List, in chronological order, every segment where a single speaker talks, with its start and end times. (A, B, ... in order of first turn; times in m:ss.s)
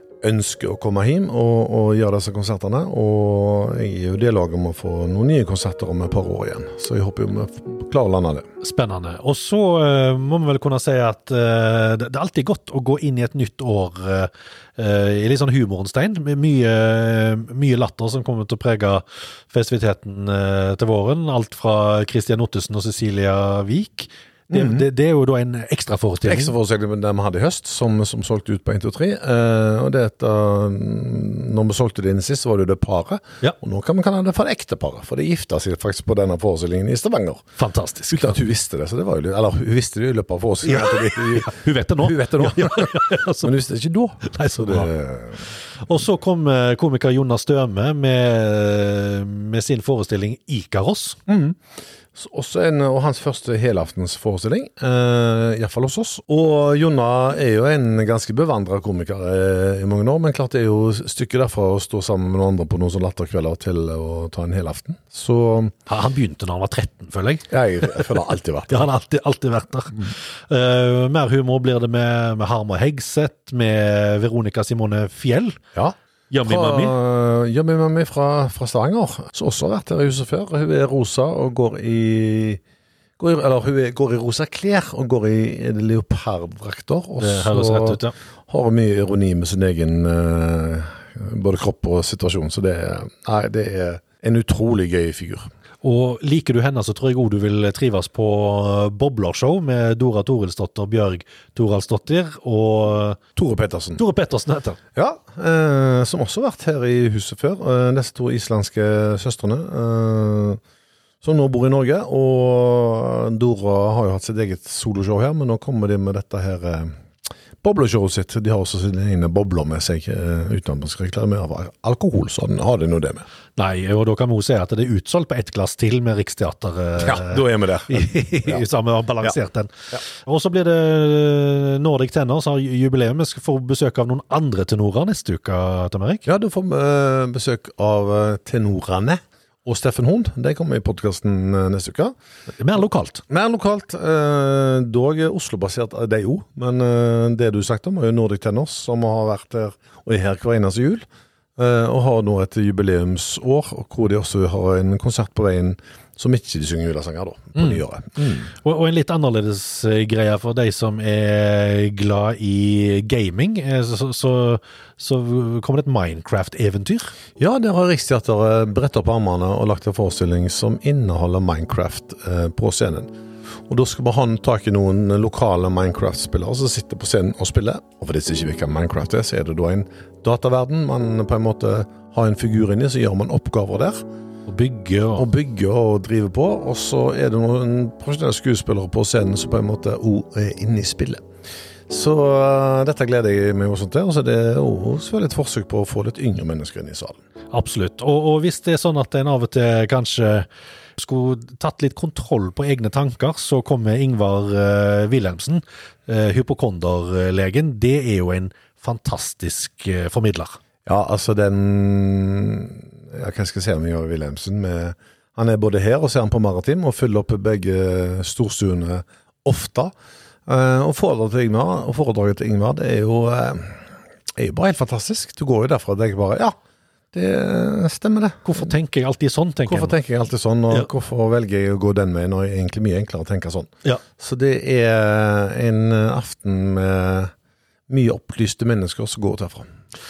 0:00.2-0:08.5 A
0:08.6-0:26.5 B
0:24.5-0:24.8 A
0:26.2-0:37.5 A
0:37.6-0:38.4 B
0:38.1-0:45.5 A
0:40.6-0:43.5 B
0:44.3-0:44.9 B
0:45.8-0:51.2 B
0:51.3-0:51.6 A
0:52.1-1:05.7 A
1:05.9-1:08.0 B
1:07.5-1:08.9 A
1:08.7-1:15.6 B
1:15.7-1:22.6 A
1:16.3-1:17.0 B
1:23.2-1:35.5 A
1:27.2-1:28.1 B
1:35.8-1:43.2 B
1:43.4-1:44.0 A
1:44.0-1:44.8 B
1:45.0-1:50.6 A
1:51.2-1:56.9 A
1:57.6-2:03.3 A
2:03.6-2:16.2 B
2:07.0-2:08.6 A
2:16.3-2:22.2 A
2:22.6-2:23.2 B
2:23.3-2:38.5 A
2:38.6-2:47.1 B
2:47.4-2:53.1 A
2:53.7-3:04.0 A
3:04.5-3:05.3 B
3:05.2-3:11.2 A
3:11.9-3:17.2 A
3:17.5-3:20.5 B
3:21.0-3:30.6 B
3:30.8-3:39.9 A
3:40.5-3:43.8 A
3:44.3-3:46.6 A
3:47.1-3:48.7 A
3:48.4-3:49.9 B
3:49.6-3:57.3 A
3:57.9-3:59.7 A